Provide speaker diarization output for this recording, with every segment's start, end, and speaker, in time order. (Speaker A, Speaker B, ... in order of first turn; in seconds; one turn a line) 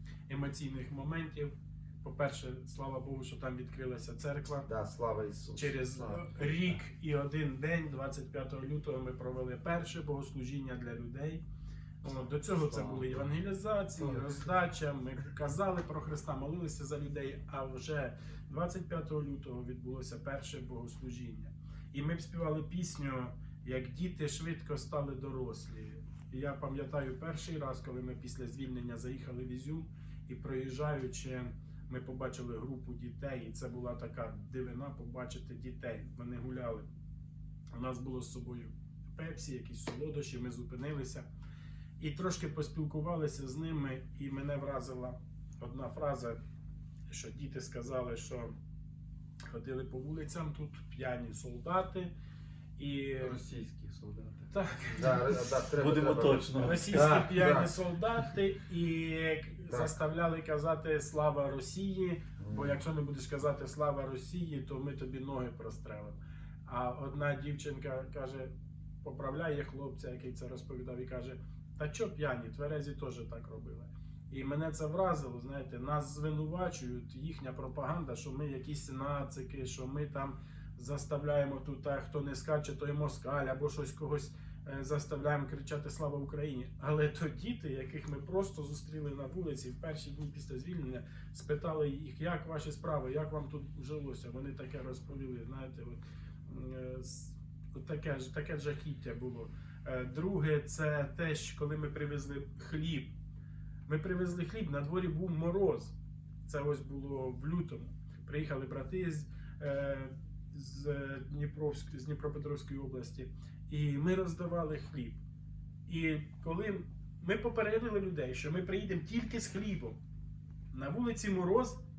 Speaker A: 0.3-4.7
Speaker B: 4.7-6.4
Speaker A: 5.6-11.4
Speaker A: 12.0-36.9
Speaker C: 12.6-13.2
Speaker A: 37.7-41.3
Speaker A: 42.0-46.4
Speaker A: 47.1-48.5
Speaker A: 49.5-52.1
Speaker A: 52.8-53.4
Speaker C: 53.2-54.5
Speaker A: 54.5-55.3
Speaker B: 54.9-57.7
Speaker C: 55.8-57.1
Speaker A: 56.6-68.5
Speaker B: 59.7-60.0
Speaker B: 62.4-62.8
Speaker A: 69.0-103.1
Speaker A: 103.9-105.9
Speaker A: 106.5-115.2
Speaker A: 115.9-120.0
Speaker A: 120.7-121.8